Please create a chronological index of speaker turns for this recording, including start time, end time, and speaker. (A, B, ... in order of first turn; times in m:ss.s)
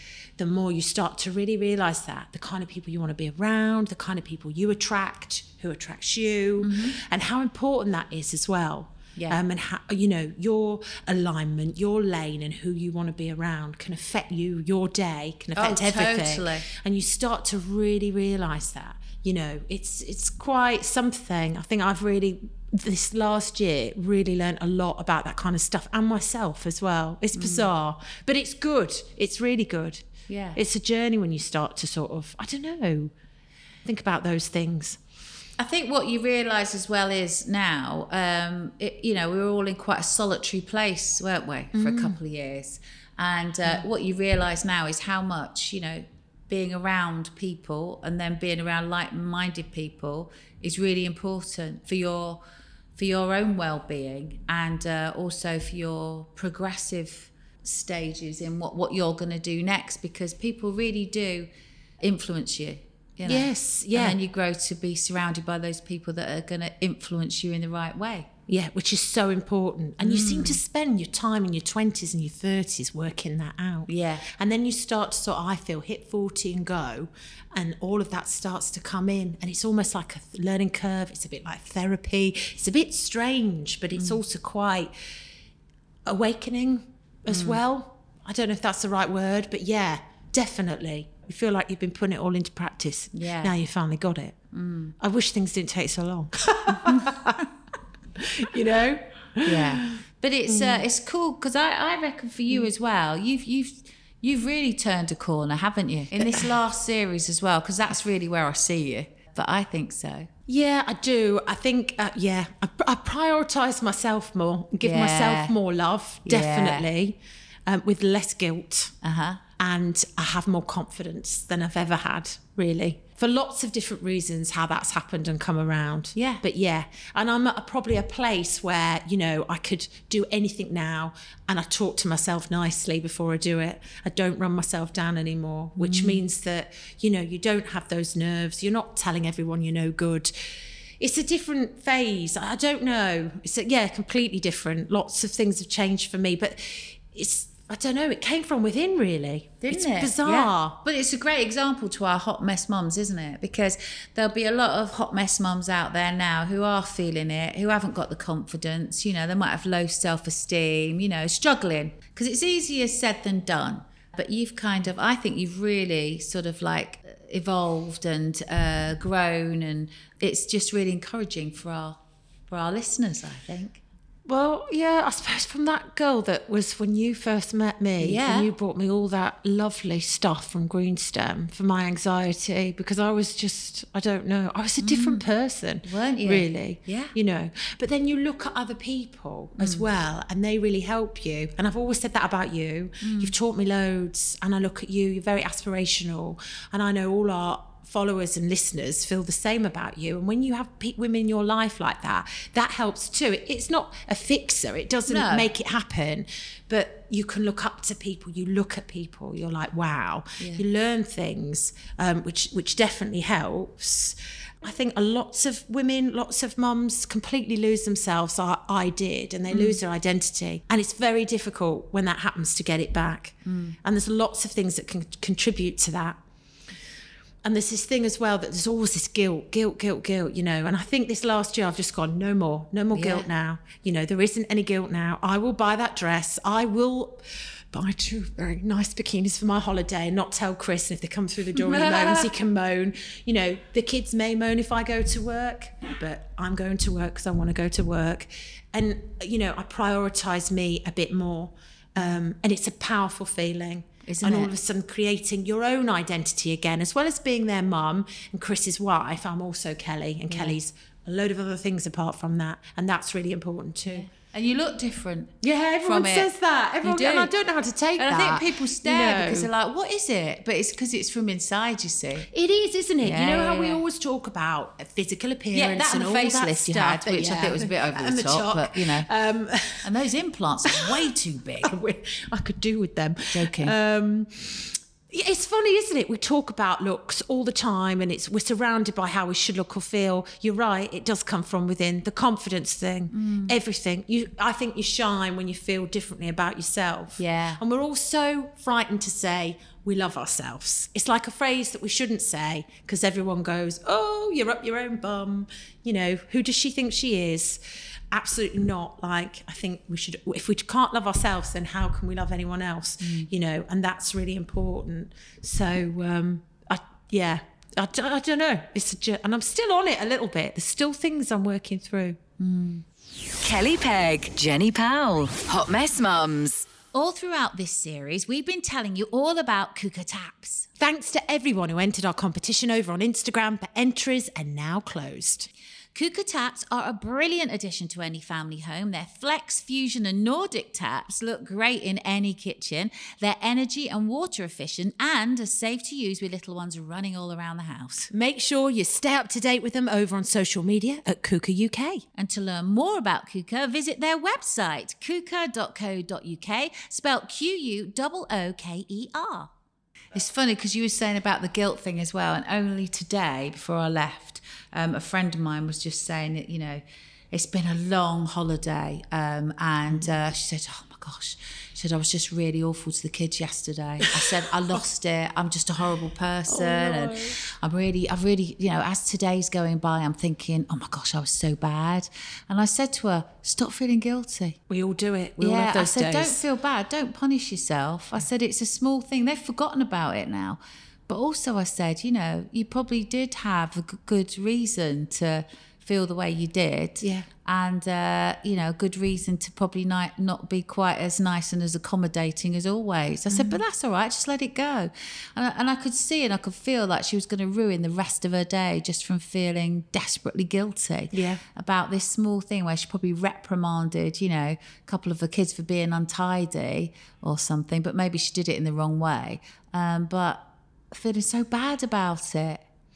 0:00.4-0:33.1 A
0:06.6-0:07.0 B
0:15.6-0:16.7 B
0:27.3-0:27.7 B
0:30.3-0:30.6 B
0:33.8-0:35.0 A
0:35.6-0:52.4 B
0:41.7-0:42.2 A
0:53.0-1:01.5 B
1:02.0-1:08.3 B
1:03.2-1:04.2 A
1:08.5-1:24.9 A
1:10.0-1:10.6 B
1:13.9-1:14.3 B
1:26.0-1:34.4 A
1:27.3-1:27.6 B
1:33.1-1:33.5 B
1:34.5-1:34.9 B
1:35.0-1:37.5 A
1:36.8-1:37.2 B
1:38.2-1:40.8 A
1:39.4-1:50.3 B
1:46.2-1:46.5 A
1:50.5-1:58.9 A
1:54.8-1:55.5 B
1:56.2-1:56.8 B
1:59.0-1:59.4 B
1:59.6-2:20.3 A
2:06.1-2:06.4 B
2:15.8-2:16.2 B
2:21.0-2:30.8 A
2:29.6-2:52.0 B
2:52.5-2:53.8 B
2:54.2-3:46.2 A
2:58.0-2:58.5 B
3:04.8-3:05.2 B
3:05.8-3:07.1 B
3:09.6-3:09.8 B
3:13.0-3:13.3 B
3:25.1-3:25.5 B
3:30.4-3:30.6 B
3:39.5-3:39.8 B
3:43.4-3:43.8 B
3:47.4-4:24.1 A
3:52.9-3:53.3 B
4:01.6-4:02.3 B
4:14.0-4:14.5 B
4:20.3-4:20.6 B
4:23.9-4:26.3 B
4:25.4-4:29.5 A
4:26.8-4:27.3 B
4:28.0-4:32.3 B
4:32.3-4:39.9 A
4:33.0-4:33.8 B
4:35.5-4:39.1 B
4:39.8-4:41.7 B
4:40.7-4:41.1 A
4:41.6-5:07.6 A
4:43.3-4:43.7 B
4:53.1-4:53.6 B
4:57.2-4:57.6 B
5:08.1-5:22.2 A
5:13.0-5:13.3 B
5:22.4-5:22.8 B
5:23.4-5:26.7 C
5:26.9-5:30.7 B
5:30.8-5:35.5 A
5:35.9-5:48.1 B
5:48.1-5:52.0 A
5:52.1-5:59.5 B
6:00.1-6:24.6 B
6:14.1-6:14.8 A
6:16.5-6:17.4 A
6:24.7-6:26.4 A
6:25.4-7:02.6 B
6:37.0-6:37.3 A
6:43.3-6:43.6 A
6:51.1-6:51.4 A